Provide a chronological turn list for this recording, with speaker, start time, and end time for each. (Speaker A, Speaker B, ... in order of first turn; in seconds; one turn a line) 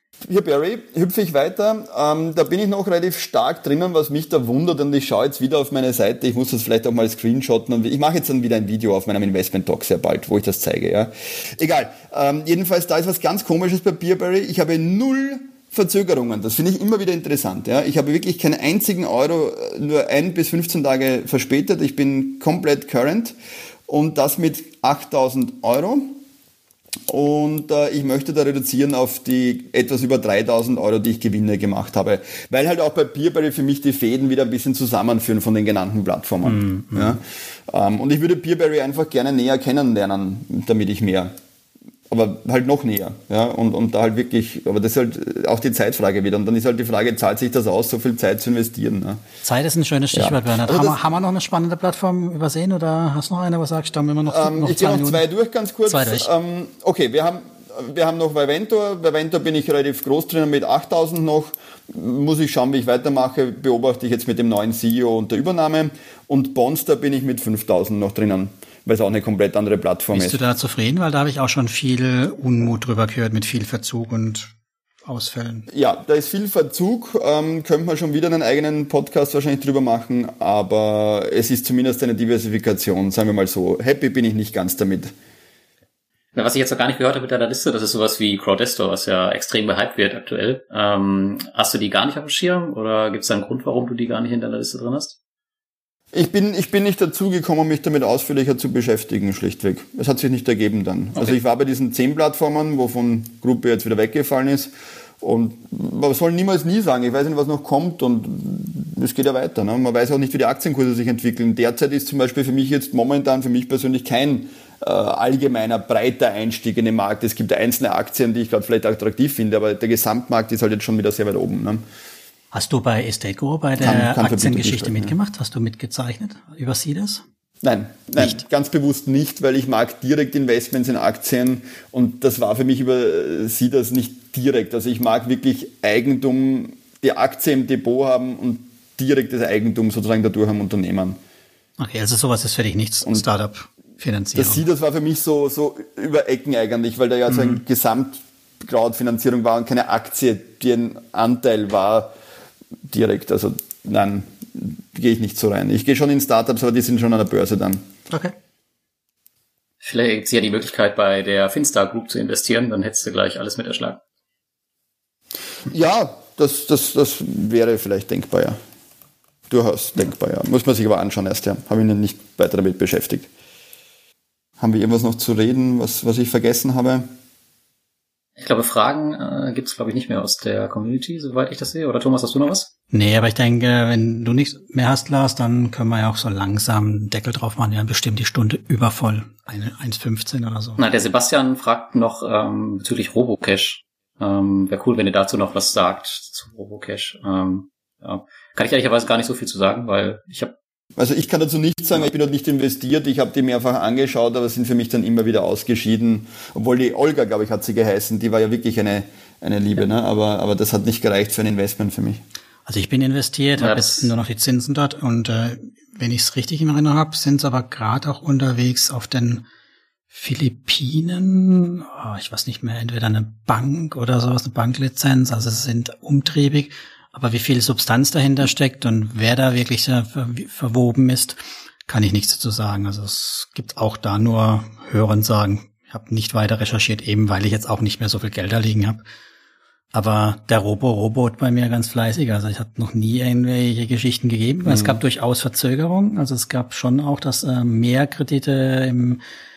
Speaker A: 0.2-23.3
Speaker A: 23.9-26.1
Speaker A: 27.1-41.3
Speaker B: 36.4-37.1
Speaker A: 42.1-49.2
Speaker B: 49.4-55.2
Speaker A: 50.1-51.0
Speaker A: 54.2-70.4
Speaker B: 55.9-56.3
Speaker B: 70.1-74.5
Speaker B: 75.0-75.7
Speaker A: 75.7-85.1
Speaker C: 86.3-95.2
Speaker A: 96.1-121.8
Speaker B: 122.5-127.2
Speaker A: 123.8-125.1
Speaker A: 127.6-141.2
Speaker B: 141.8-144.6
Speaker A: 144.3-152.1
Speaker A: 152.9-157.8
Speaker C: 159.8-164.0
Speaker A: 165.7-168.6
Speaker A: 169.5-173.3
Speaker A: 174.6-177.1
Speaker C: 178.4-182.7
Speaker B: 182.9-190.8
Speaker C: 190.8-200.5
Speaker A: 200.9-212.2
Speaker B: 212.7-219.4
Speaker C: 213.6-214.1
Speaker B: 220.1-239.0
Speaker B: 239.9-249.2
Speaker A: 244.6-245.0